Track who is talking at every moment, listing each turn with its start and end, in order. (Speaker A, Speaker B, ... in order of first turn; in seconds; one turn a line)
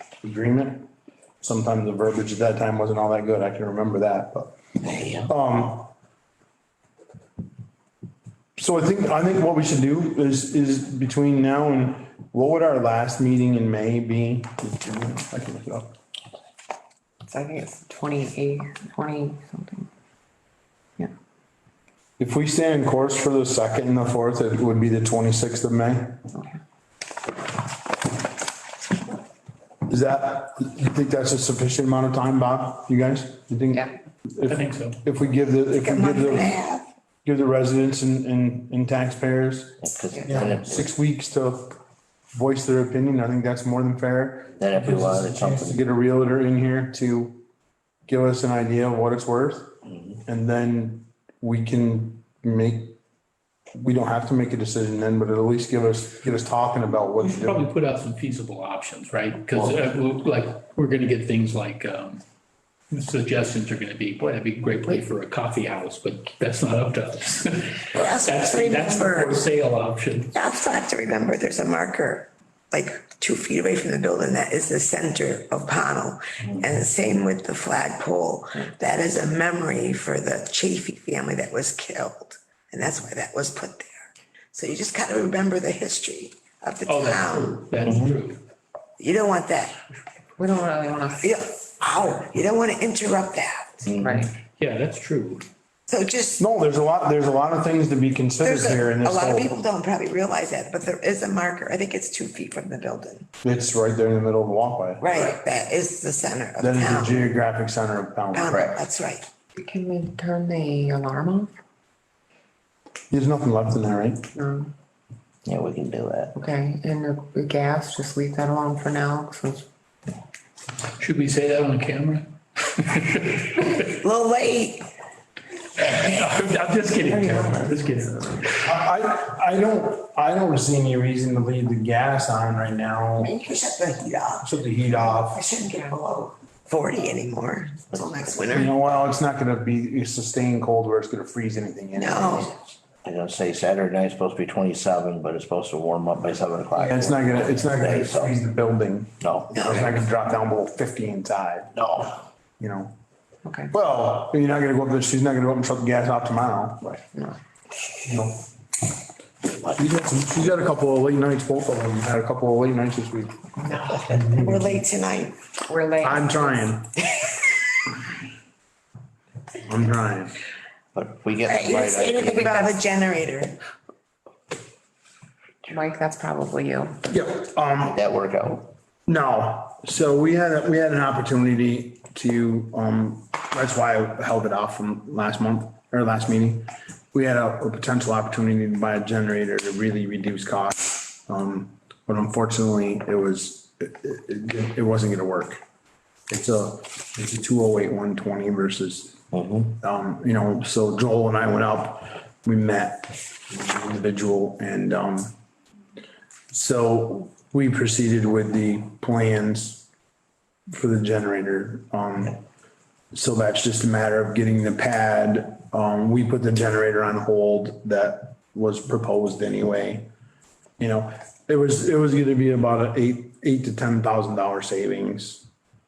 Speaker A: 0.2-0.9
Speaker A: 1.4-4.6
Speaker A: 5.2-5.9
Speaker A: 8.6-16.0
Speaker B: 17.3-19.9
Speaker A: 22.2-26.3
Speaker A: 29.9-36.6
Speaker C: 34.5-35.0
Speaker D: 35.8-36.9
Speaker A: 37.2-41.8
Speaker E: 39.8-40.9
Speaker A: 42.3-47.4
Speaker E: 44.6-45.8
Speaker A: 48.1-53.0
Speaker E: 49.9-50.2
Speaker A: 53.8-57.7
Speaker C: 57.2-62.2
Speaker C: 62.9-70.3
Speaker D: 67.9-69.5
Speaker D: 70.3-87.6
Speaker C: 86.9-88.4
Speaker E: 87.8-88.2
Speaker D: 89.0-89.8
Speaker B: 90.4-91.4
Speaker D: 91.2-94.0
Speaker E: 93.9-94.3
Speaker B: 94.0-94.3
Speaker C: 94.5-95.5
Speaker D: 95.9-96.5
Speaker A: 96.4-99.5
Speaker D: 98.4-103.3
Speaker A: 103.4-105.1
Speaker D: 105.0-107.3
Speaker A: 106.6-108.6
Speaker D: 108.3-109.3
Speaker E: 108.5-108.8
Speaker B: 109.6-111.5
Speaker A: 113.1-114.3
Speaker B: 114.3-114.7
Speaker E: 115.5-116.3
Speaker B: 116.3-119.7
Speaker C: 121.0-123.9
Speaker D: 123.8-124.9
Speaker C: 125.8-128.5
Speaker A: 128.6-133.3
Speaker D: 133.2-134.5
Speaker A: 134.4-135.6
Speaker D: 135.2-138.7
Speaker A: 138.5-142.6
Speaker D: 141.9-142.6
Speaker E: 143.0-148.4
Speaker A: 146.8-151.8
Speaker E: 149.2-149.5
Speaker D: 149.5-149.9
Speaker E: 151.8-152.2
Speaker A: 152.6-152.9
Speaker B: 153.4-153.7
Speaker A: 153.7-157.0
Speaker A: 158.1-158.4
Speaker A: 159.7-163.5
Speaker B: 163.6-164.3
Speaker D: 164.0-165.4
Speaker A: 164.1-164.8
Speaker B: 165.7-166.7
Speaker A: 166.0-166.9
Speaker A: 169.6-170.4
Speaker E: 170.9-172.7
Speaker D: 171.5-173.6
Speaker B: 175.7-177.0
Speaker A: 177.1-178.0
Speaker E: 177.9-178.7
Speaker A: 179.1-195.6
Speaker A: 196.3-205.3
Speaker E: 199.3-199.7
Speaker A: 206.5-209.9
Speaker A: 210.7-212.4
Speaker A: 213.1-220.1
Speaker A: 220.8-225.5